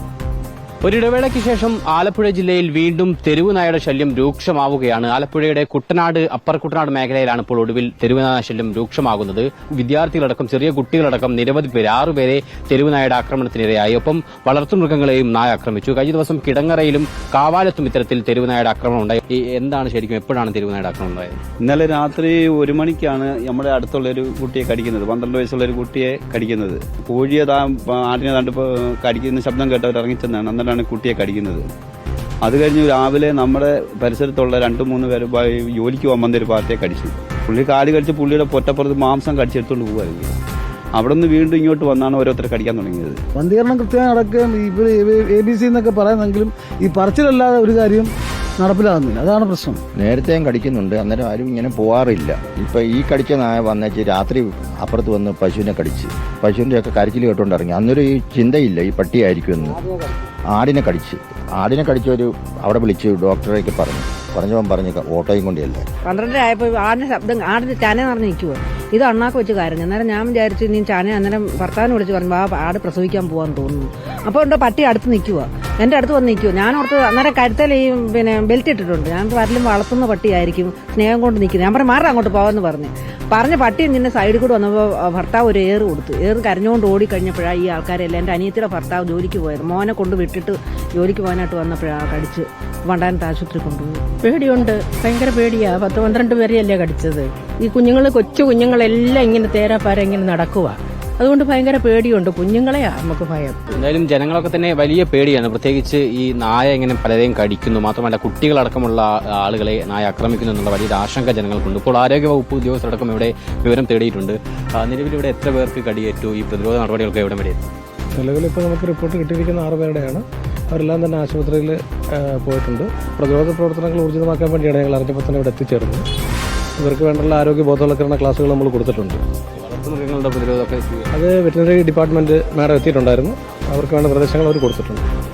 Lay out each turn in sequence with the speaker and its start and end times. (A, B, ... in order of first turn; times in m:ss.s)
0:00.8-0:21.4 A
0:21.6-0:31.6 B
0:32.4-0:40.4 B
0:41.0-0:43.2 B
0:43.4-0:48.1 C
0:48.6-0:49.8 C
0:50.0-0:59.8 D
1:00.5-1:05.8 D
1:06.0-1:34.0 E
1:34.2-1:43.6 F
1:43.7-1:57.7 A
1:58.2-2:06.0 G
2:06.8-2:09.2 G
2:09.6-2:11.1 A
2:11.1-2:15.0 G